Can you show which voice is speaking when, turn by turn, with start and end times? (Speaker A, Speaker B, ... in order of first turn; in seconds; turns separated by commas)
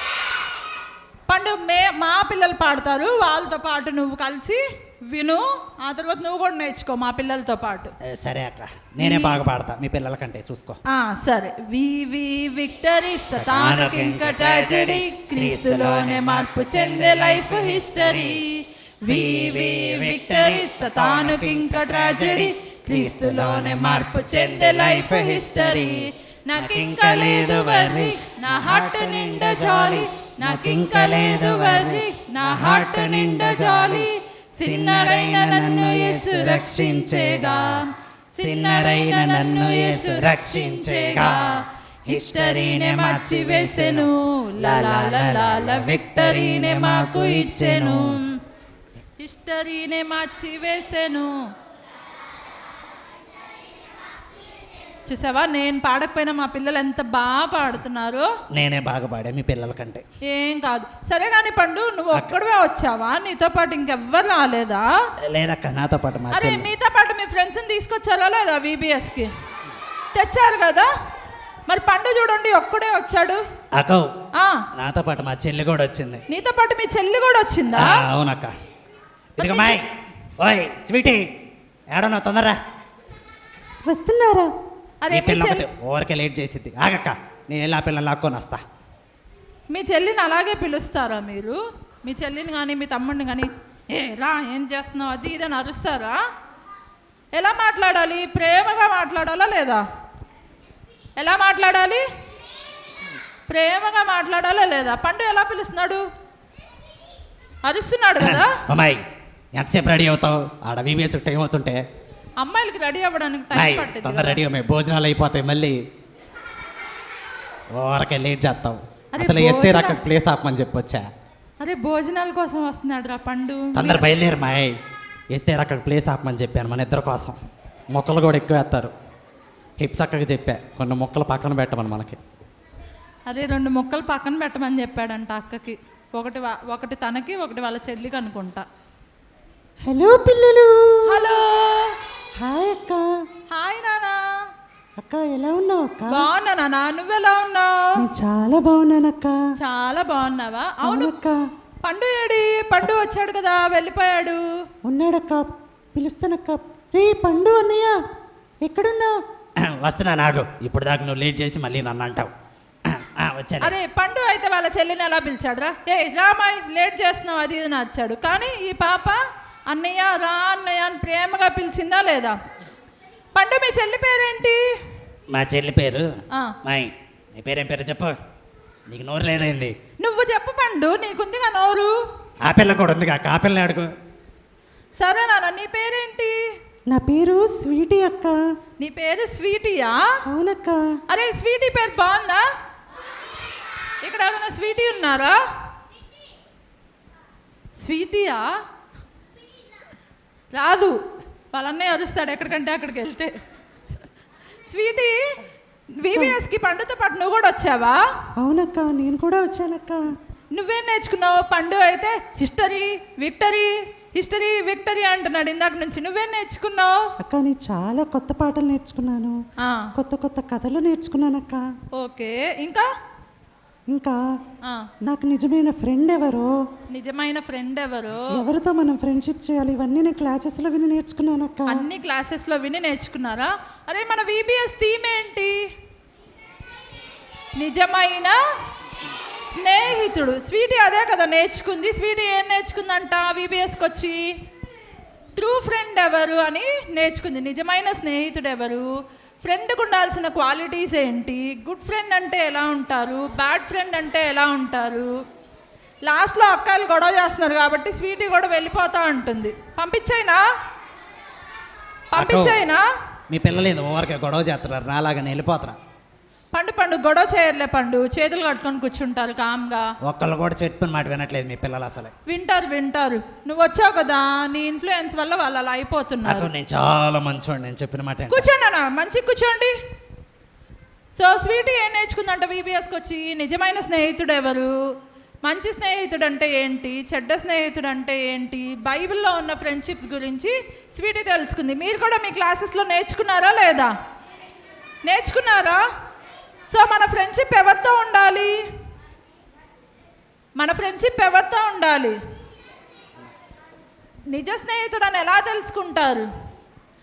Speaker A: 1.3-7.9, Speaker B: 8.1-10.8, Speaker A: 9.0-9.4, Speaker A: 10.9-48.4, Speaker B: 13.4-18.4, Speaker B: 19.1-26.0, Speaker B: 26.6-34.1, Speaker B: 34.6-37.8, Speaker B: 38.4-48.2, Speaker A: 49.2-51.3, Speaker A: 55.0-58.3, Speaker B: 58.5-60.0, Speaker A: 60.3-64.8, Speaker B: 65.3-66.7, Speaker A: 66.3-69.3, Speaker A: 70.1-70.9, Speaker A: 71.7-73.4, Speaker B: 73.7-74.1, Speaker A: 74.4-74.6, Speaker B: 74.8-76.2, Speaker A: 76.3-77.9, Speaker B: 77.7-78.5, Speaker B: 79.3-79.8, Speaker A: 79.4-79.8, Speaker B: 80.4-81.2, Speaker B: 81.9-82.6, Speaker C: 83.9-84.5, Speaker A: 85.0-85.7, Speaker B: 85.1-88.6, Speaker A: 89.7-96.2, Speaker A: 97.3-99.8, Speaker A: 101.2-102.0, Speaker A: 103.5-106.0, Speaker A: 107.6-108.6, Speaker B: 108.2-109.0, Speaker B: 109.5-111.8, Speaker A: 112.4-114.4, Speaker B: 113.5-115.8, Speaker B: 117.8-121.0, Speaker A: 119.1-120.0, Speaker A: 121.6-124.0, Speaker B: 123.7-124.7, Speaker B: 125.3-127.3, Speaker B: 127.9-128.9, Speaker B: 129.8-132.2, Speaker A: 133.3-138.6, Speaker C: 139.9-141.2, Speaker A: 141.1-141.9, Speaker C: 142.4-143.1, Speaker A: 143.5-144.2, Speaker C: 145.0-146.3, Speaker A: 146.1-147.9, Speaker C: 148.0-149.4, Speaker A: 149.6-151.1, Speaker C: 150.8-151.3, Speaker A: 151.8-154.4, Speaker C: 154.9-157.9, Speaker C: 158.6-159.1, Speaker B: 159.8-162.3, Speaker B: 162.9-163.7, Speaker A: 163.6-169.2, Speaker A: 169.7-172.4, Speaker A: 173.3-174.6, Speaker B: 175.3-176.1, Speaker B: 176.6-178.1, Speaker B: 178.9-179.8, Speaker A: 180.0-181.9, Speaker B: 182.4-183.9, Speaker A: 185.0-186.3, Speaker C: 186.9-188.3, Speaker A: 188.8-190.0, Speaker C: 190.3-190.8, Speaker A: 191.1-192.4, Speaker A: 194.0-195.4, Speaker A: 197.8-198.4, Speaker A: 200.5-201.0, Speaker A: 201.5-203.3, Speaker A: 204.7-205.1, Speaker A: 206.0-208.0, Speaker C: 208.4-210.0, Speaker A: 210.5-217.0, Speaker C: 217.2-219.3, Speaker A: 219.6-219.9, Speaker C: 219.9-221.6, Speaker A: 222.0-222.9, Speaker C: 223.9-224.2, Speaker C: 225.1-226.5, Speaker A: 226.9-228.3, Speaker C: 228.3-231.8, Speaker A: 231.7-235.6, Speaker A: 237.6-238.3, Speaker A: 239.5-244.2, Speaker A: 245.3-248.9, Speaker A: 249.4-255.1, Speaker A: 256.1-260.4, Speaker A: 262.1-262.8, Speaker B: 262.1-262.6, Speaker B: 263.3-265.8, Speaker A: 266.5-269.9, Speaker B: 270.0-272.1, Speaker A: 272.3-276.5, Speaker B: 276.2-278.4, Speaker A: 278.3-279.7, Speaker A: 281.1-284.7, Speaker A: 285.4-293.9, Speaker A: 295.1-295.8, Speaker A: 296.7-298.5, Speaker A: 300.6-302.1, Speaker A: 304.3-306.3